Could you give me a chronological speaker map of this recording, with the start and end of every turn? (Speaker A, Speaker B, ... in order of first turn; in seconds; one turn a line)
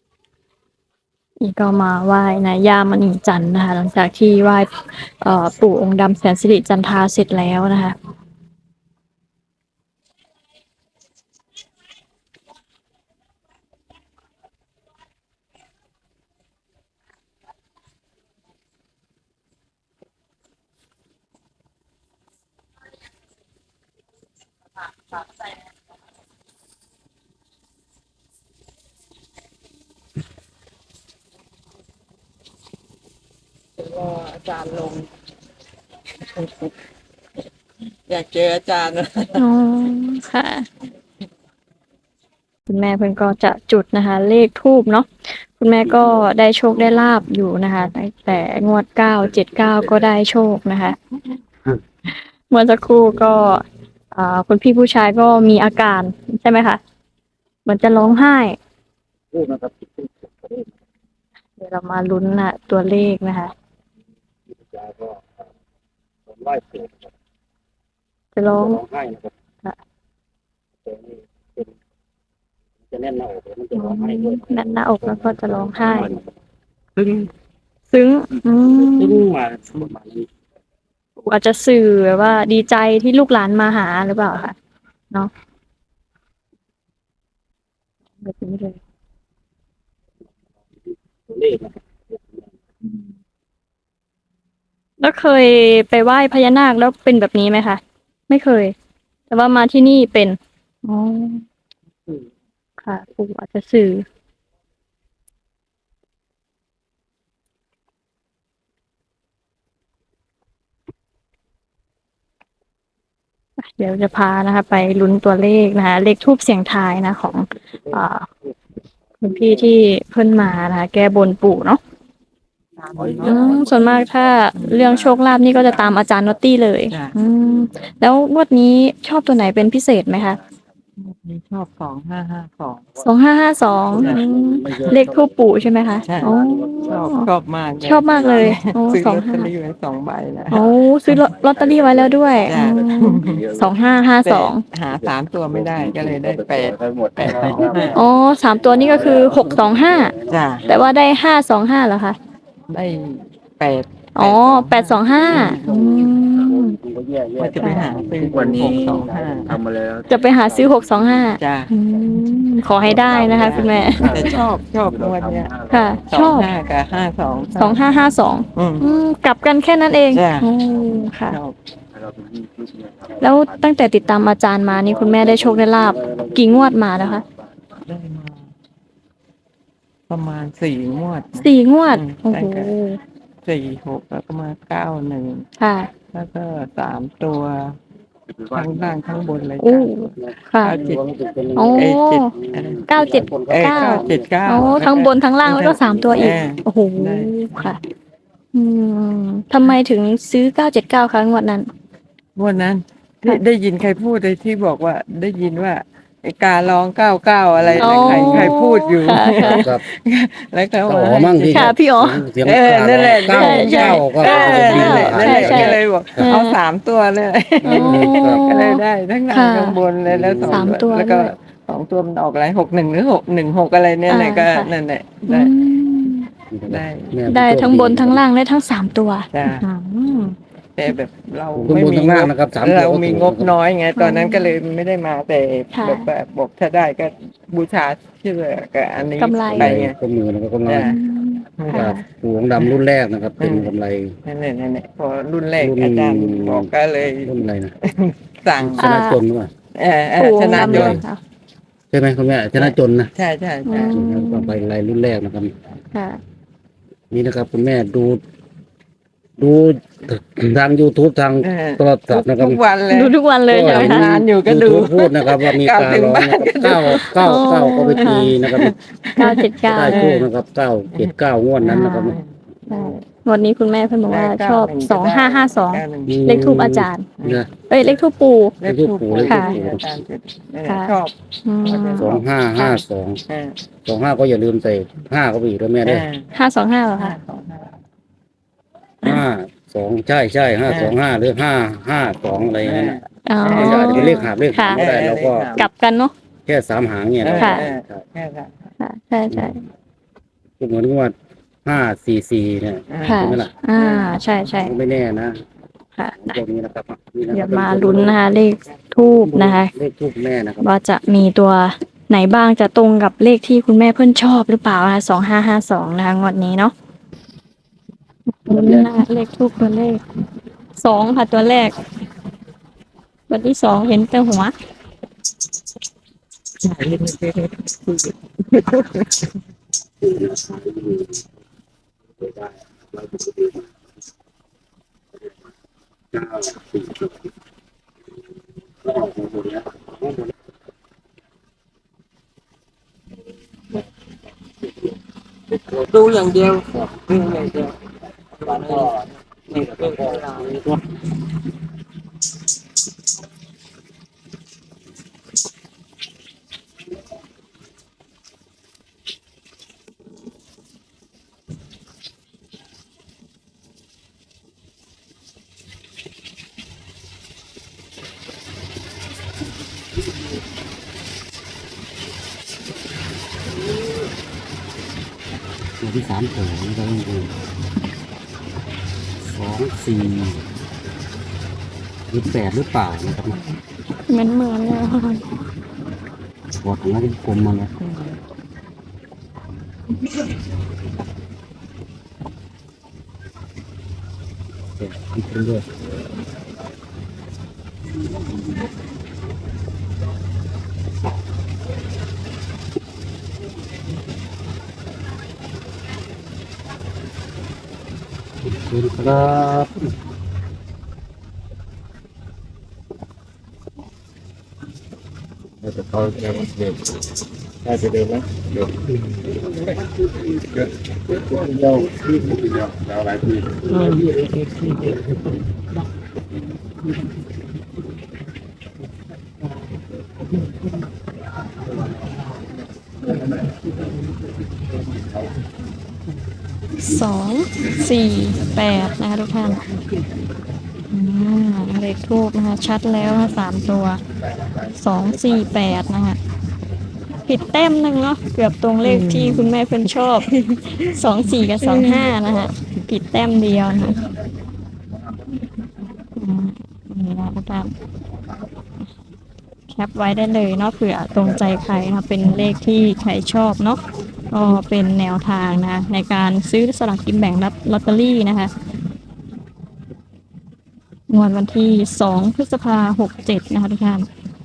Speaker A: 1.4-8.0
Speaker B: 33.8-35.1
Speaker B: 36.2-36.7
Speaker B: 38.1-39.5
Speaker A: 39.4-40.7
Speaker A: 42.6-51.0
Speaker A: 52.1-56.8
Speaker A: 57.6-58.6
Speaker C: 59.3-60.7
Speaker A: 61.6-63.5
Speaker C: 64.5-65.5
Speaker C: 66.3-67.1
Speaker A: 68.3-68.8
Speaker C: 68.4-69.3
Speaker C: 70.8-71.7
Speaker C: 72.9-76.2
Speaker A: 73.7-76.2
Speaker C: 77.0-77.3
Speaker A: 77.9-79.2
Speaker C: 78.7-80.3
Speaker A: 81.2-84.5
Speaker A: 88.2-88.8
Speaker C: 91.3-92.4
Speaker A: 95.0-98.7
Speaker A: 99.3-101.4
Speaker A: 102.8-104.0
Speaker A: 113.6-118.3
Speaker A: 119.2-121.8
Speaker B: 122.8-123.5
Speaker C: 123.0-125.2
Speaker A: 123.2-130.4
Speaker B: 124.5-124.9
Speaker B: 126.9-127.2
Speaker B: 131.0-132.8
Speaker A: 133.0-137.3
Speaker C: 133.8-137.1
Speaker B: 133.9-134.2
Speaker B: 136.1-141.2
Speaker A: 137.8-139.5
Speaker C: 138.1-138.6
Speaker A: 140.5-144.6
Speaker C: 141.3-142.6
Speaker B: 142.4-143.4
Speaker C: 143.3-143.7
Speaker B: 144.2-148.0
Speaker C: 145.5-148.1
Speaker A: 147.9-150.1
Speaker C: 148.6-150.9
Speaker B: 150.3-150.6
Speaker A: 150.7-152.2
Speaker B: 152.7-155.8
Speaker A: 154.2-156.8
Speaker C: 155.3-161.1
Speaker B: 157.4-159.6
Speaker A: 157.6-157.8
Speaker A: 160.1-164.1
Speaker B: 161.4-161.7
Speaker C: 162.7-166.1
Speaker B: 163.1-165.5
Speaker A: 165.7-166.5
Speaker B: 166.1-167.8
Speaker A: 167.6-171.4
Speaker B: 168.5-168.9
Speaker B: 170.1-170.5
Speaker B: 171.3-171.6
Speaker C: 172.0-173.4
Speaker A: 173.2-177.2
Speaker C: 174.8-177.4
Speaker B: 177.8-178.4
Speaker B: 180.1-182.7
Speaker A: 181.4-183.0
Speaker B: 183.4-185.4
Speaker A: 185.6-185.9
Speaker B: 186.1-187.8
Speaker C: 188.3-189.0
Speaker B: 188.5-191.0
Speaker A: 189.6-190.8
Speaker C: 190.2-194.8
Speaker A: 191.6-192.3
Speaker B: 191.7-192.9
Speaker A: 192.9-197.8
Speaker B: 193.5-197.8
Speaker C: 195.9-196.4
Speaker A: 198.5-201.7
Speaker B: 202.3-211.8
Speaker C: 207.6-208.6
Speaker A: 207.8-209.7
Speaker C: 209.3-209.8
Speaker C: 210.8-216.3
Speaker A: 211.5-212.2
Speaker B: 212.4-225.5
Speaker A: 213.2-216.6
Speaker C: 217.6-218.4
Speaker A: 217.7-219.8
Speaker C: 220.1-220.7
Speaker A: 220.5-221.3
Speaker A: 224.1-224.7
Speaker A: 225.3-226.3
Speaker C: 226.5-228.2
Speaker B: 226.7-227.2
Speaker A: 227.3-230.3
Speaker B: 229.3-229.7
Speaker B: 230.8-239.9
Speaker C: 231.5-233.5
Speaker A: 233.9-234.6
Speaker A: 235.7-236.1
Speaker A: 239.2-239.8
Speaker C: 239.5-241.0
Speaker B: 240.7-241.0
Speaker A: 240.8-242.0
Speaker B: 241.6-241.9
Speaker C: 241.7-244.1
Speaker B: 243.4-243.7
Speaker B: 244.2-248.8
Speaker C: 245.6-247.7
Speaker C: 248.6-249.5
Speaker A: 248.8-249.2
Speaker B: 249.7-251.0
Speaker A: 250.2-251.2
Speaker C: 250.5-251.0
Speaker C: 251.9-253.1
Speaker B: 252.6-254.0
Speaker A: 253.7-254.5
Speaker C: 253.8-255.5
Speaker A: 255.9-256.2
Speaker C: 257.1-258.2
Speaker C: 259.4-262.6
Speaker B: 261.4-267.4
Speaker A: 262.9-264.0
Speaker C: 263.5-268.7
Speaker A: 267.0-268.4
Speaker B: 268.0-270.3
Speaker A: 269.2-270.1
Speaker C: 269.6-272.2
Speaker B: 270.9-273.0
Speaker A: 271.6-272.1
Speaker A: 272.7-277.1
Speaker B: 274.1-276.2
Speaker C: 276.1-277.5
Speaker B: 277.2-277.4
Speaker A: 277.7-278.6
Speaker B: 278.6-283.6
Speaker C: 278.6-279.9
Speaker A: 279.2-279.5
Speaker A: 280.6-280.9
Speaker A: 281.4-282.1
Speaker C: 281.9-283.2
Speaker C: 283.8-286.1
Speaker B: 285.8-286.3
Speaker A: 286.3-287.1
Speaker B: 286.9-287.8
Speaker C: 289.0-293.0
Speaker B: 290.7-291.0
Speaker B: 292.6-295.7
Speaker A: 293.2-294.8
Speaker C: 293.5-295.6
Speaker A: 295.6-296.1
Speaker C: 296.5-298.0
Speaker B: 297.2-298.7
Speaker A: 297.4-297.6
Speaker A: 298.8-299.6
Speaker C: 300.6-303.5
Speaker B: 302.9-304.3
Speaker A: 303.0-304.7
Speaker C: 304.5-305.4
Speaker A: 306.0-306.4
Speaker C: 306.2-308.2
Speaker A: 307.3-309.7
Speaker C: 309.2-310.6
Speaker A: 310.6-316.7
Speaker A: 318.4-320.0
Speaker C: 318.5-318.9
Speaker A: 320.8-321.8
Speaker A: 323.3-324.5
Speaker B: 326.6-329.3
Speaker C: 330.0-331.2
Speaker C: 332.2-333.7
Speaker C: 336.1-337.1
Speaker C: 338.8-340.3
Speaker B: 345.6-347.7
Speaker B: 348.4-350.6
Speaker C: 348.5-349.0
Speaker C: 349.5-350.8
Speaker C: 375.8-377.4
Speaker C: 379.3-380.4
Speaker C: 382.1-383.4
Speaker B: 383.3-383.6
Speaker A: 384.1-385.2
Speaker C: 386.6-387.7
Speaker B: 387.8-388.2
Speaker C: 394.8-395.6
Speaker C: 408.5-409.9
Speaker C: 415.6-417.1
Speaker B: 417.8-418.2
Speaker C: 418.4-419.7
Speaker C: 421.1-424.1
Speaker B: 423.8-424.0
Speaker A: 436.8-439.6
Speaker A: 440.9-444.0
Speaker A: 444.7-446.2
Speaker A: 447.3-454.0
Speaker B: 448.8-449.6
Speaker B: 450.3-450.8
Speaker B: 451.6-452.1
Speaker A: 456.1-457.7
Speaker A: 459.7-468.5
Speaker A: 471.1-474.1